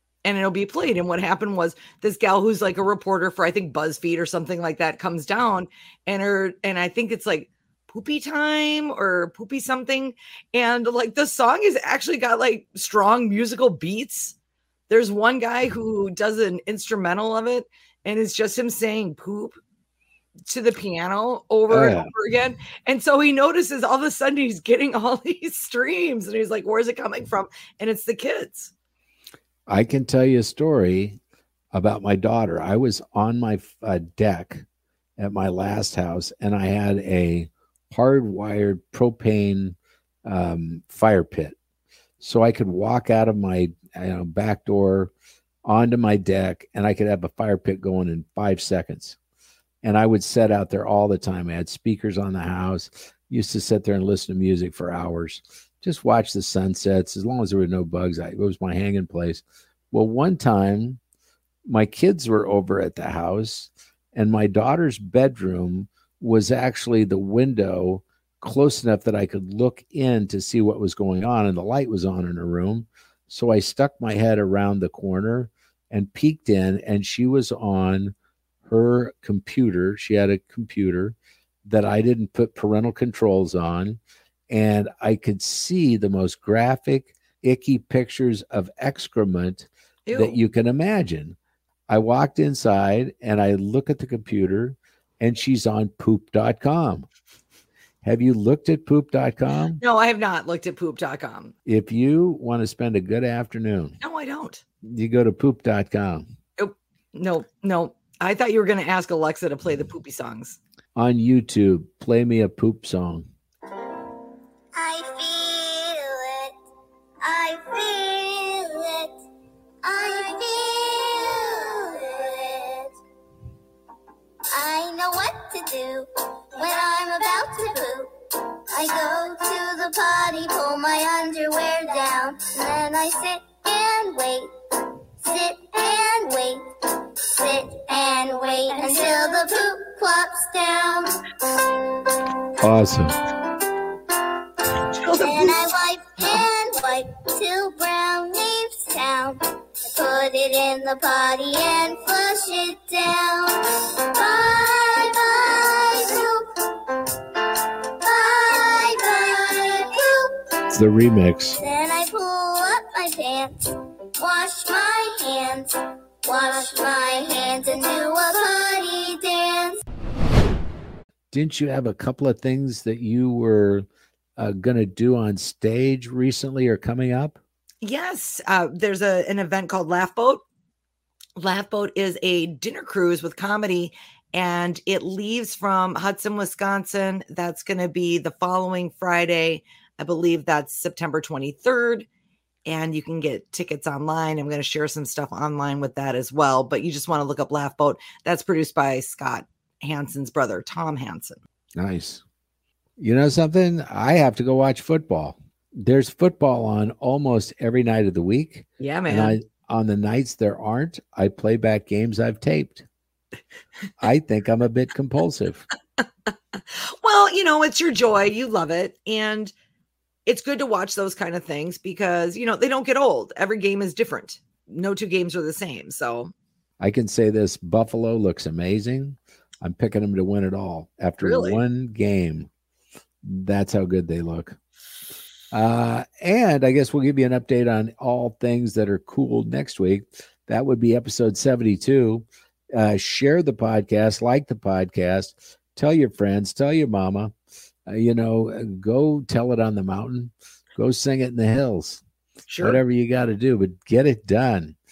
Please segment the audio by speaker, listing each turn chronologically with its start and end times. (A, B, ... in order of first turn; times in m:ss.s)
0:00.2-0:14.4 A
0:14.9-0:19.6 A
0:20.5-0:28.7 A
0:21.7-0:22.1 B
0:29.7-0:31.2 B
0:31.7-0:34.6 B
0:35.2-0:41.6 B
0:42.2-0:45.1 B
0:45.6-0:49.2 B
0:49.8-1:01.0 B
1:01.7-1:18.1 B
1:18.6-1:24.0 B
1:24.5-1:31.4 B
1:30.0-1:30.4 A
1:31.9-1:37.0 B
1:38.0-1:39.8 B
1:39.8-1:41.5 A
1:41.6-1:44.0 B
1:44.0-1:44.6 A
1:44.8-1:46.2 B
1:46.6-1:50.6 A
1:50.9-1:53.2 B
1:54.7-1:56.5 C
1:57.2-1:59.1 C
1:59.8-2:02.9 C
2:04.5-2:08.1 C
2:08.7-2:14.5 C
2:15.2-2:16.7 C
2:17.3-2:21.2 C
2:22.6-2:23.1 B
2:24.8-2:25.7 A
2:25.2-2:37.1 C
2:38.0-2:40.4 C
2:40.7-2:41.6 B
2:41.6-2:49.8 C
2:51.3-2:53.8 B
2:54.4-2:57.4 B
2:57.8-3:00.4 A
3:01.4-3:12.1 A
3:12.6-3:21.4 A
3:21.8-3:22.2 B
3:23.0-3:32.8 B
3:28.8-3:29.4 A
3:34.0-3:35.6 B
3:36.3-3:39.5 A
3:40.2-3:46.3 A
3:46.8-3:52.5 B
3:51.2-3:51.6 A
3:53.2-3:54.6 B
3:55.5-4:07.3 B
4:07.9-4:12.0 B
4:12.5-4:12.8 A
4:12.6-4:14.8 B